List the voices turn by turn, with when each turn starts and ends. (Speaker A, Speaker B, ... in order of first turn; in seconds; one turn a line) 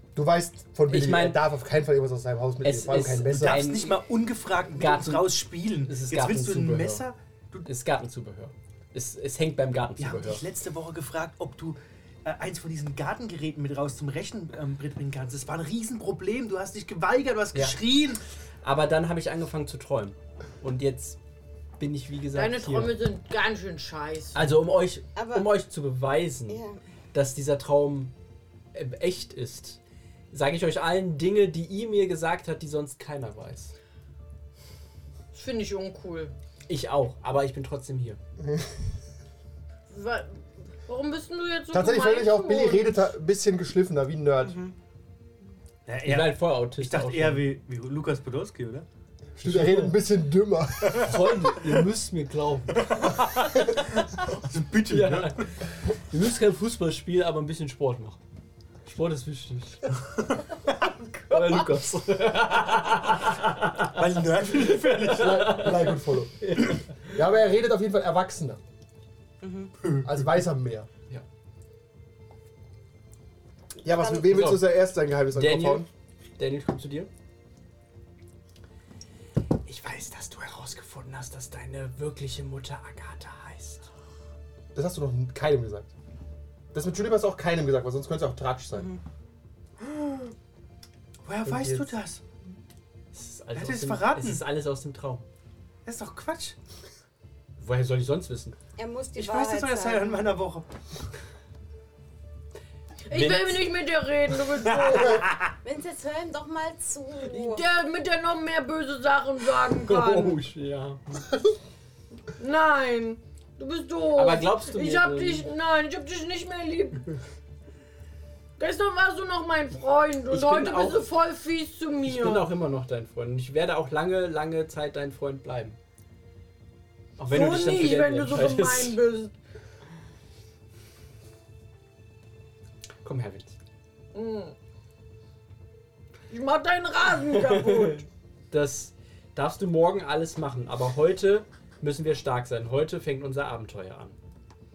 Speaker A: 0.1-3.6
Speaker B: 0.9-1.4
Speaker B: 2.6-4.0
Speaker C: 3.3-7.7
Speaker B: 4.7-7.1
Speaker B: 7.6-10.4
Speaker C: 10.0-18.2
Speaker B: 18.6-21.2
Speaker B: 21.8-23.0
Speaker D: 22.3-24.4
Speaker B: 24.3-28.1
Speaker E: 25.1-25.5
Speaker E: 26.5-26.8
Speaker B: 28.7-29.8
Speaker B: 30.3-33.7
Speaker D: 35.3-36.3
Speaker B: 36.7-38.2
Speaker D: 39.9-40.3
Speaker D: 40.9-42.9
Speaker A: 41.7-44.6
Speaker C: 45.9-48.9
Speaker B: 46.0-47.5
Speaker A: 49.4-51.1
Speaker B: 49.4-49.9
Speaker C: 50.9-51.1
Speaker B: 51.0-53.5
Speaker C: 53.0-55.4
Speaker B: 54.9-55.5
Speaker B: 56.1-58.2
Speaker B: 58.9-60.0
Speaker B: 61.3-66.9
Speaker C: 63.9-65.5
Speaker A: 65.1-68.6
Speaker E: 69.4-69.7
Speaker A: 70.0-70.9
Speaker A: 73.8-75.9
Speaker E: 73.9-74.3
Speaker B: 74.3-74.7
Speaker B: 75.3-75.9
Speaker B: 76.4-77.1
Speaker B: 79.6-83.8
Speaker A: 84.7-85.9
Speaker A: 86.7-88.9
Speaker C: 91.2-92.2
Speaker B: 93.1-95.2
Speaker C: 93.5-94.4
Speaker C: 95.9-96.5
Speaker B: 97.6-98.6
Speaker E: 98.8-100.3
Speaker C: 99.1-100.7
Speaker D: 103.1-105.2
Speaker B: 103.1-103.6
Speaker C: 104.5-105.5
Speaker E: 105.6-107.6
Speaker D: 107.3-110.4
Speaker B: 109.8-111.2
Speaker D: 112.4-117.1
Speaker B: 114.1-115.5
Speaker D: 118.6-122.5
Speaker B: 120.3-121.1
Speaker B: 122.0-125.8
Speaker B: 127.2-129.0
Speaker D: 127.3-129.3
Speaker B: 133.0-133.5
Speaker D: 134.1-134.5
Speaker D: 136.3-138.1
Speaker B: 137.4-138.0
Speaker B: 138.5-144.2